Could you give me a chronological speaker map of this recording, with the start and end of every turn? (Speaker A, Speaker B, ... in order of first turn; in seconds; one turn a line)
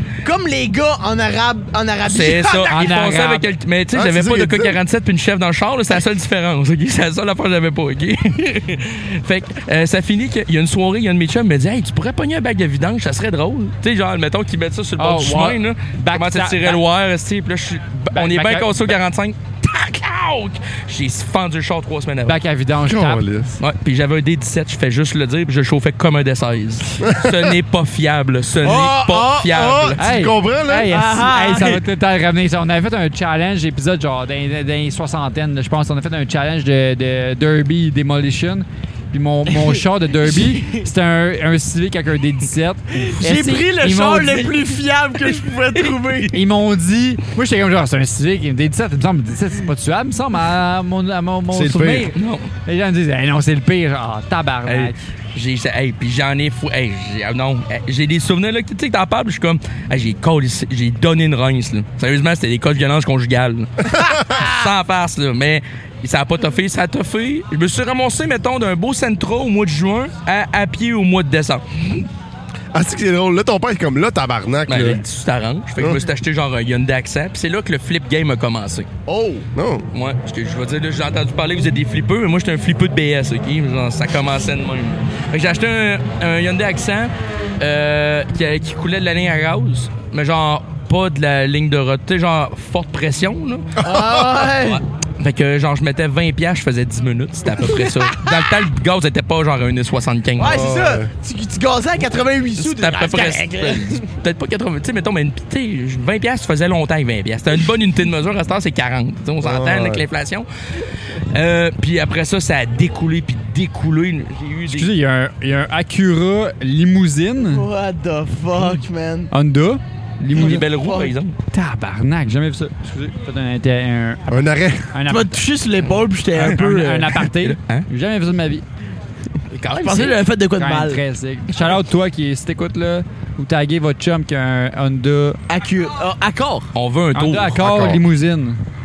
Speaker A: 0.2-2.8
Speaker B: 2.0-22.4
Speaker C: 2.7-3.5
Speaker D: 3.9-4.8
Speaker C: 15.0-16.8
Speaker C: 18.1-18.8
Speaker C: 22.3-23.3
Speaker D: 22.8-23.6
Speaker B: 23.6-30.0
Speaker D: 27.0-27.6
Speaker D: 28.6-30.9
Speaker C: 30.0-44.5
Speaker A: 30.9-31.8
Speaker A: 40.4-40.7
Speaker A: 43.1-46.3
Speaker C: 46.3-55.0
Speaker D: 51.5-52.1
Speaker B: 52.1-52.5
Speaker B: 54.7-72.1
Speaker D: 63.9-64.2
Speaker A: 64.2-64.6
Speaker D: 72.7-75.0
Speaker B: 74.7-78.9
Speaker A: 79.1-79.5
Speaker D: 79.5-79.9
Speaker B: 79.9-93.8
Speaker A: 93.8-94.8
Speaker D: 93.8-94.2
Speaker B: 94.5-100.6
Speaker A: 97.8-98.3
Speaker A: 100.4-104.0
Speaker D: 100.5-101.1
Speaker B: 102.6-110.5
Speaker D: 109.4-110.0
Speaker B: 111.3-114.9
Speaker C: 114.7-117.7
Speaker A: 117.5-119.3
Speaker C: 119.3-120.7
Speaker B: 120.3-121.3
Speaker A: 120.3-121.2
Speaker C: 121.5-124.3
Speaker D: 124.3-124.9
Speaker C: 124.9-125.3
Speaker A: 125.1-127.2
Speaker C: 126.3-128.7
Speaker B: 127.3-127.9
Speaker B: 129.5-130.2
Speaker A: 129.7-131.0
Speaker C: 130.6-135.4
Speaker A: 135.5-136.7
Speaker B: 136.7-137.6
Speaker C: 137.1-138.6
Speaker D: 137.6-138.0